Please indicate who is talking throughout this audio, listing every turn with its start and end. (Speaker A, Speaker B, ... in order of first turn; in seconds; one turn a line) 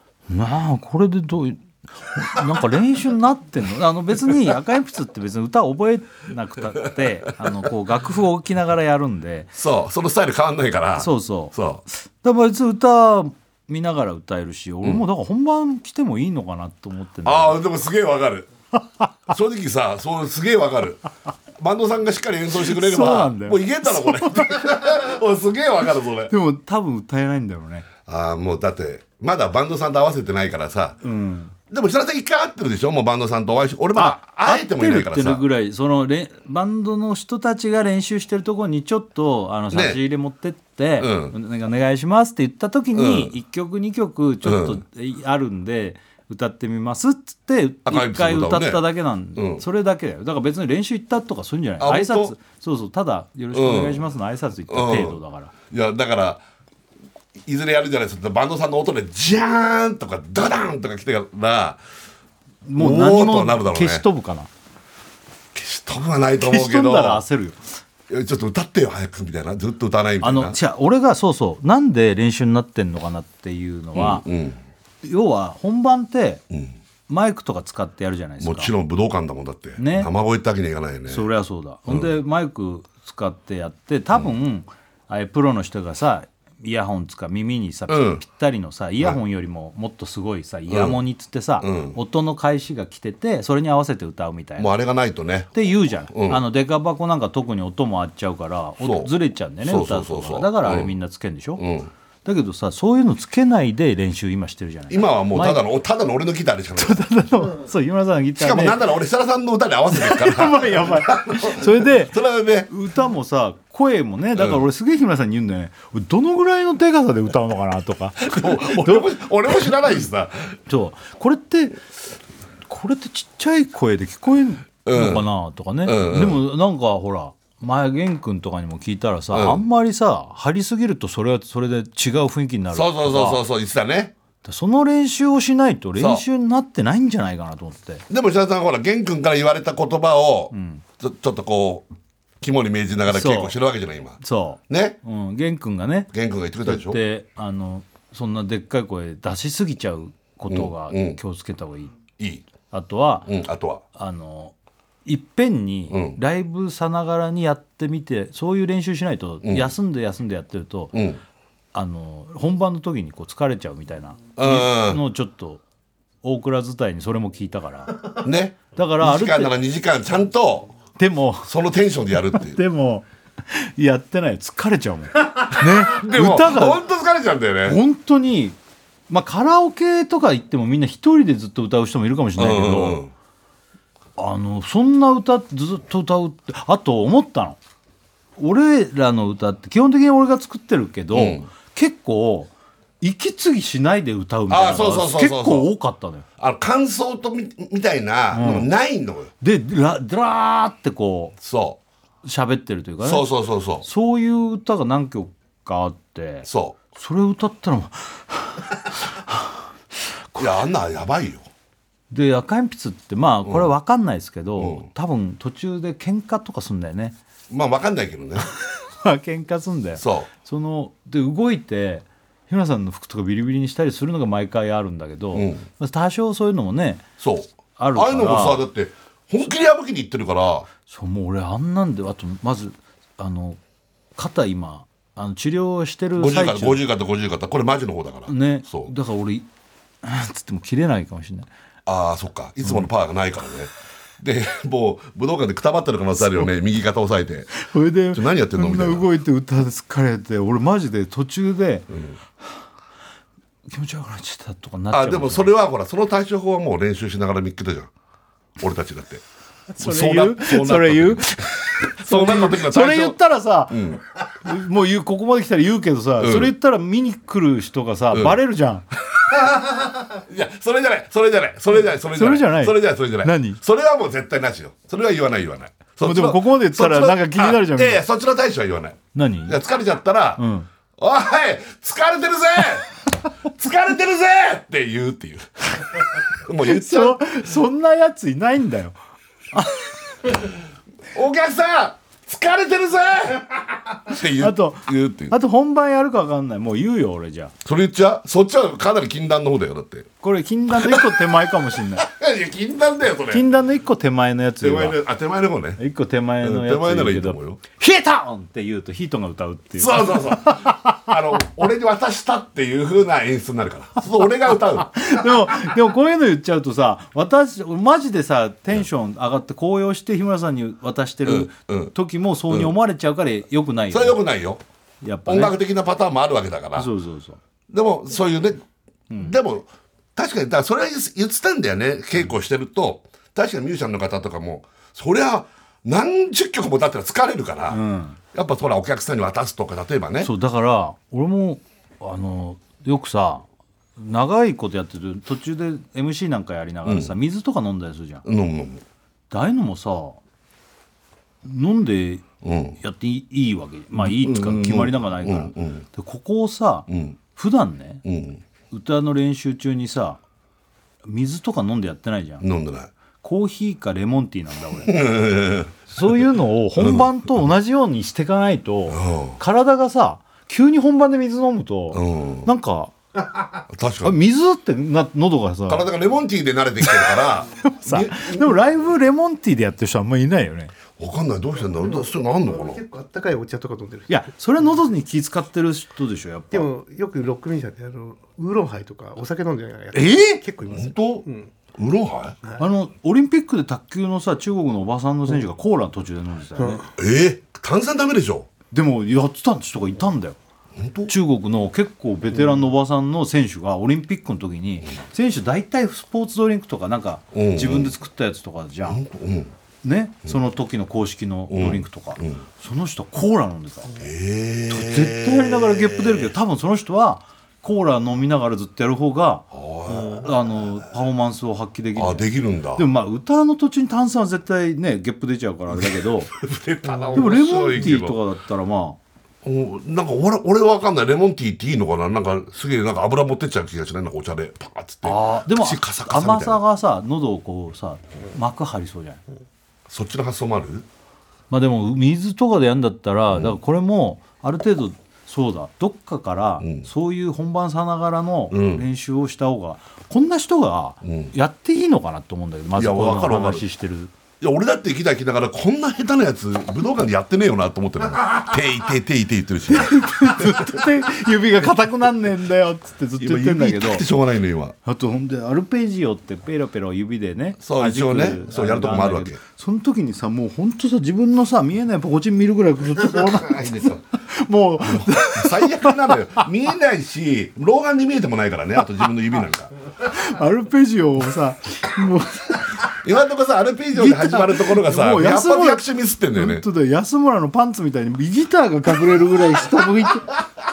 Speaker A: 0.3-9.5
Speaker B: 9.6-11.8
Speaker A: 11.0-17.6
Speaker B: 17.2-18.5
Speaker B: 19.3-21.0
Speaker B: 21.6-26.3
Speaker A: 22.6-24.9
Speaker A: 26.3-27.9
Speaker B: 28.1-31.0
Speaker A: 31.0-31.5
Speaker B: 31.7-35.4
Speaker A: 34.0-55.5
Speaker B: 39.7-40.0
Speaker B: 41.0-41.3
Speaker B: 42.9-43.3
Speaker B: 44.4-44.8
Speaker B: 47.9-48.8
Speaker B: 49.4-49.6
Speaker B: 51.8-52.4
Speaker B: 53.5-54.0
Speaker B: 54.7-55.2
Speaker B: 55.7-56.4
Speaker B: 57.5-61.8
Speaker A: 62.6-64.5
Speaker B: 62.8-64.1
Speaker B: 65.5-67.2
Speaker A: 66.4-67.6
Speaker B: 68.1-70.6
Speaker A: 70.2-74.3
Speaker B: 73.9-74.6
Speaker A: 75.0-76.4
Speaker A: 77.1-78.7
Speaker B: 78.4-81.3
Speaker A: 79.8-80.1
Speaker A: 81.1-94.7
Speaker B: 87.9-88.2
Speaker B: 90.7-91.0
Speaker B: 91.6-92.0
Speaker B: 94.6-96.4
Speaker A: 95.5-101.6
Speaker B: 98.8-100.9
Speaker B: 101.6-101.9
Speaker A: 102.2-105.6
Speaker B: 104.9-107.1
Speaker A: 106.8-108.8
Speaker B: 108.4-112.7
Speaker A: 109.9-119.7
Speaker B: 114.4-114.6
Speaker B: 118.2-120.6
Speaker A: 120.7-121.8
Speaker A: 122.7-133.4
Speaker B: 124.8-125.3
Speaker B: 125.8-126.4
Speaker B: 129.3-129.6
Speaker B: 132.7-134.1
Speaker A: 134.4-138.1
Speaker B: 136.0-136.2
Speaker B: 138.1-141.9
Speaker A: 140.5-140.8
Speaker B: 142.4-145.0
Speaker A: 143.1-143.6
Speaker A: 144.2-146.1
Speaker B: 146.1-147.0
Speaker A: 146.6-151.9
Speaker B: 150.5-151.2
Speaker B: 152.2-152.5
Speaker A: 152.7-153.3
Speaker B: 153.3-153.8
Speaker A: 153.9-154.5
Speaker A: 155.1-160.9
Speaker B: 155.9-156.2
Speaker B: 159.4-159.7
Speaker B: 160.9-161.2
Speaker A: 161.7-165.6
Speaker B: 164.4-165.0
Speaker A: 166.2-168.2
Speaker B: 168.2-170.7
Speaker A: 168.7-169.6
Speaker A: 171.0-171.5
Speaker B: 171.5-172.6
Speaker A: 172.2-176.8
Speaker B: 175.5-177.8
Speaker A: 177.7-178.6
Speaker A: 179.1-183.0
Speaker B: 182.4-183.1
Speaker A: 184.2-187.6
Speaker A: 188.4-196.2
Speaker B: 191.1-191.5
Speaker B: 194.5-195.7
Speaker B: 196.4-199.3
Speaker A: 198.3-198.7
Speaker A: 199.4-201.3
Speaker B: 201.4-201.8
Speaker A: 202.2-203.3
Speaker B: 203.0-203.9
Speaker A: 203.8-210.6
Speaker B: 206.4-206.8
Speaker B: 210.4-211.4
Speaker A: 212.1-217.2
Speaker B: 213.4-213.7
Speaker B: 214.6-214.9
Speaker B: 217.5-218.5
Speaker A: 219.0-227.1
Speaker B: 220.0-220.3
Speaker B: 225.3-225.7
Speaker B: 227.2-230.7
Speaker A: 227.8-228.6
Speaker A: 230.9-233.6
Speaker A: 234.2-236.8
Speaker B: 236.2-238.9
Speaker A: 238.3-239.5
Speaker A: 240.0-241.5
Speaker B: 241.9-249.1
Speaker A: 242.6-242.9
Speaker A: 246.2-246.5
Speaker A: 247.6-251.9
Speaker B: 251.9-252.2
Speaker A: 253.7-255.5
Speaker B: 254.9-257.9
Speaker B: 258.6-259.2
Speaker A: 259.7-263.8
Speaker B: 259.8-263.2
Speaker B: 263.7-264.0
Speaker A: 264.4-268.9
Speaker B: 266.2-266.5
Speaker B: 268.1-268.4
Speaker B: 269.2-280.4
Speaker A: 272.1-273.6
Speaker A: 276.0-278.0
Speaker A: 279.1-279.6
Speaker A: 280.4-280.7
Speaker B: 281.0-282.9
Speaker B: 283.5-287.4
Speaker A: 286.6-288.9
Speaker A: 289.5-290.0
Speaker B: 291.1-295.4
Speaker A: 294.2-297.5
Speaker B: 297.6-300.1
Speaker A: 300.2-302.1
Speaker B: 300.7-301.1
Speaker B: 302.0-303.4
Speaker A: 303.3-305.0
Speaker B: 304.6-305.8
Speaker A: 305.8-311.1
Speaker B: 306.4-307.6
Speaker B: 309.8-315.1
Speaker A: 314.8-324.2
Speaker B: 321.2-321.9
Speaker B: 323.9-324.6
Speaker A: 325.0-325.6
Speaker B: 325.3-326.9
Speaker A: 326.8-327.4
Speaker B: 327.7-328.6
Speaker A: 329.1-329.4
Speaker B: 329.2-337.8
Speaker A: 337.7-338.2
Speaker B: 338.3-340.3
Speaker A: 340.2-343.5
Speaker A: 344.0-348.2
Speaker B: 346.9-347.1
Speaker B: 348.2-348.8
Speaker A: 349.3-350.2
Speaker A: 351.4-352.2
Speaker B: 352.4-352.8
Speaker A: 352.8-358.0
Speaker B: 354.0-355.9
Speaker B: 356.9-357.2
Speaker B: 358.1-358.4
Speaker A: 358.7-360.2
Speaker A: 361.1-362.4
Speaker B: 362.4-362.9
Speaker A: 363.2-365.1
Speaker B: 364.8-365.8
Speaker A: 365.9-372.9
Speaker B: 366.8-367.1
Speaker B: 368.9-369.4
Speaker B: 371.9-372.5
Speaker B: 373.7-374.2
Speaker A: 374.0-375.9
Speaker B: 375.7-378.6
Speaker A: 376.8-380.7
Speaker B: 381.0-382.8
Speaker C: 381.6-384.2
Speaker A: 384.1-386.7
Speaker C: 386.5-391.5
Speaker A: 389.9-390.4
Speaker B: 390.7-392.4
Speaker A: 392.6-396.9
Speaker C: 396.6-396.8
Speaker B: 396.9-398.5
Speaker A: 398.7-400.4
Speaker B: 400.8-401.1
Speaker A: 401.1-409.0
Speaker B: 407.3-407.9
Speaker B: 408.9-409.5
Speaker A: 409.8-413.9
Speaker B: 411.5-412.4
Speaker B: 413.9-416.3
Speaker A: 414.7-426.3
Speaker B: 419.5-420.3
Speaker B: 422.0-422.9
Speaker B: 425.7-428.2
Speaker C: 426.9-427.3
Speaker A: 427.1-429.0
Speaker B: 429.4-436.6
Speaker A: 435.0-439.2
Speaker B: 439.9-440.9
Speaker A: 441.5-454.1
Speaker B: 446.6-446.9
Speaker B: 448.5-448.9
Speaker B: 451.0-451.3
Speaker B: 452.8-453.7
Speaker B: 454.4-460.8
Speaker A: 459.7-464.1
Speaker B: 463.2-464.8
Speaker A: 464.9-476.5
Speaker B: 467.6-469.4
Speaker B: 473.3-474.0
Speaker B: 474.8-479.7
Speaker A: 480.0-482.9
Speaker B: 482.9-486.6
Speaker A: 483.9-490.4